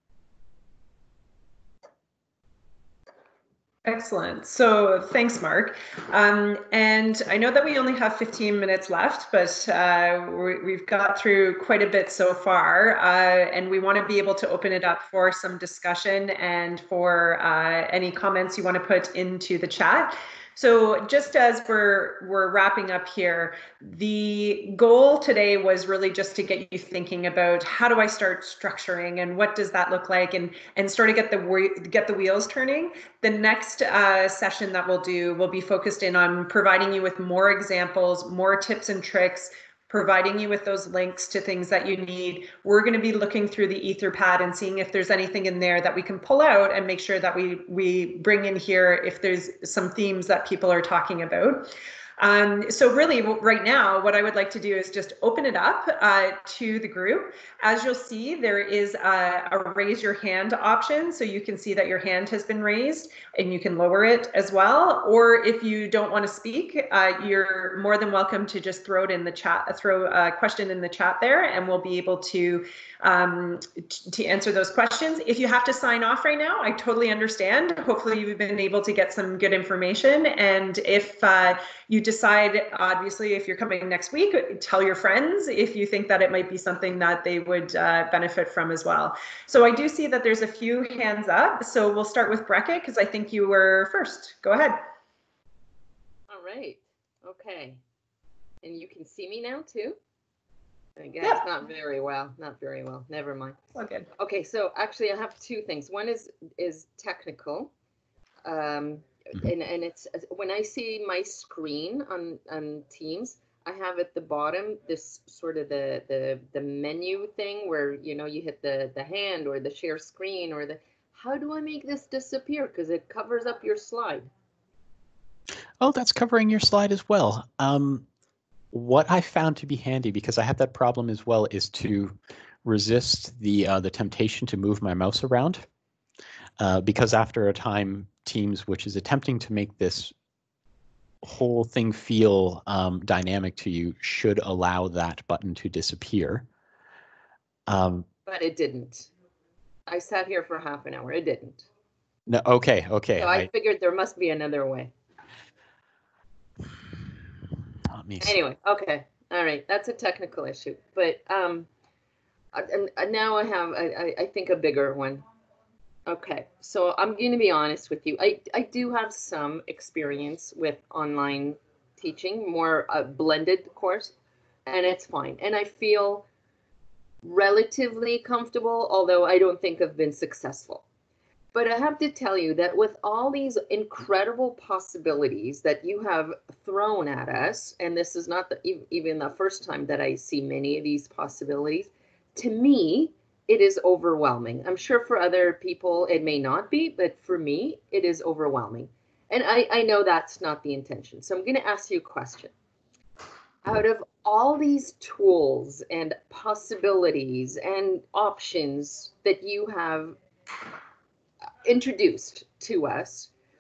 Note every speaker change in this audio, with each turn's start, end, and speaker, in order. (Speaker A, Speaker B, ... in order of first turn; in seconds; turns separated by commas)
Speaker A: 3.9-94.8, Speaker B: 96.3-97.8, Speaker B: 98.6-100.0, Speaker B: 101.0-103.6, Speaker A: 103.7-104.1, Speaker B: 104.2-107.7, Speaker B: 108.5-124.3, Speaker C: 125.8-128.1, Speaker C: 128.7-135.6, Speaker C: 136.6-140.1, Speaker C: 141.2-146.5, Speaker C: 147.7-148.1, Speaker B: 148.3-149.1, Speaker B: 149.9-151.7, Speaker C: 152.3-153.5, Speaker B: 153.2-154.9, Speaker C: 157.9-158.4, Speaker B: 158.2-161.7, Speaker B: 162.5-165.2, Speaker B: 166.1-174.1, Speaker B: 174.7-176.3, Speaker B: 177.2-180.8, Speaker B: 181.5-202.5, Speaker B: 203.6-210.1, Speaker B: 211.6-213.3